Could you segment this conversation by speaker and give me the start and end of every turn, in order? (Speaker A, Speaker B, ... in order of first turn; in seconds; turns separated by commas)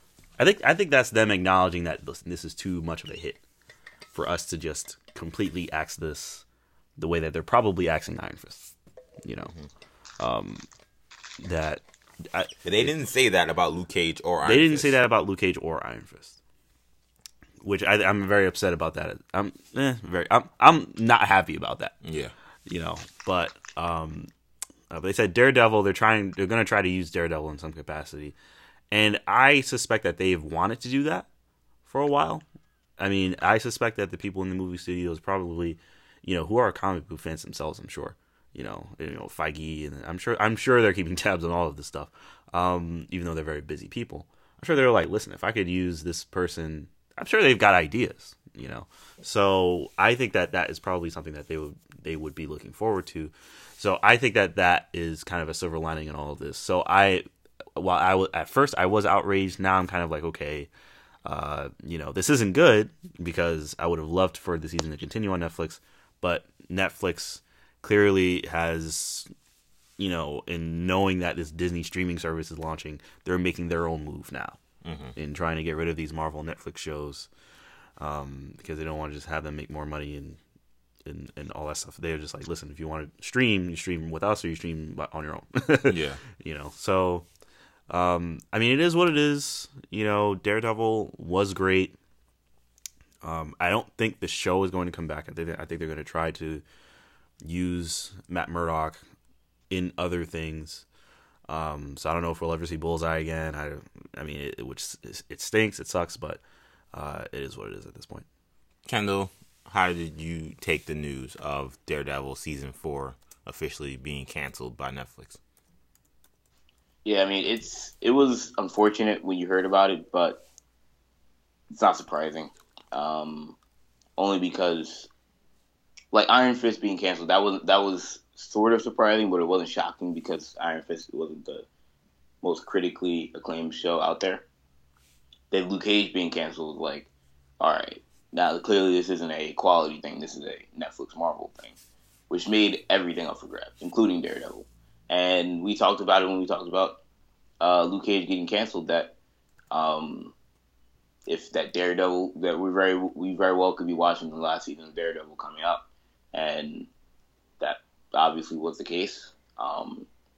Speaker A: 0.4-3.4, Speaker A: 4.1-6.5, Speaker A: 7.0-9.6, Speaker A: 10.2-10.7, Speaker A: 11.4-12.9, Speaker B: 12.7-14.9, Speaker A: 14.4-16.4, Speaker A: 17.6-22.0, Speaker B: 22.0-22.3, Speaker A: 22.7-24.3, Speaker A: 24.9-28.4, Speaker A: 28.9-31.3, Speaker A: 31.9-32.4, Speaker A: 33.0-60.7, Speaker A: 61.2-69.3, Speaker A: 70.0-74.6, Speaker B: 74.8-75.2, Speaker A: 75.2-77.3, Speaker A: 78.0-80.4, Speaker A: 81.0-87.3, Speaker B: 85.9-86.2, Speaker A: 87.9-92.0, Speaker A: 93.2-96.6, Speaker A: 97.4-99.0, Speaker A: 99.7-100.9, Speaker A: 101.5-106.4, Speaker A: 106.9-108.3, Speaker B: 108.9-115.4, Speaker C: 117.0-120.4, Speaker C: 121.7-123.6, Speaker C: 124.2-125.1, Speaker C: 126.1-131.7, Speaker C: 132.4-134.4, Speaker C: 135.5-137.1, Speaker C: 137.6-141.8, Speaker C: 142.3-147.0, Speaker C: 147.6-149.2, Speaker C: 149.7-150.3, Speaker C: 151.3-156.9, Speaker C: 157.6-160.1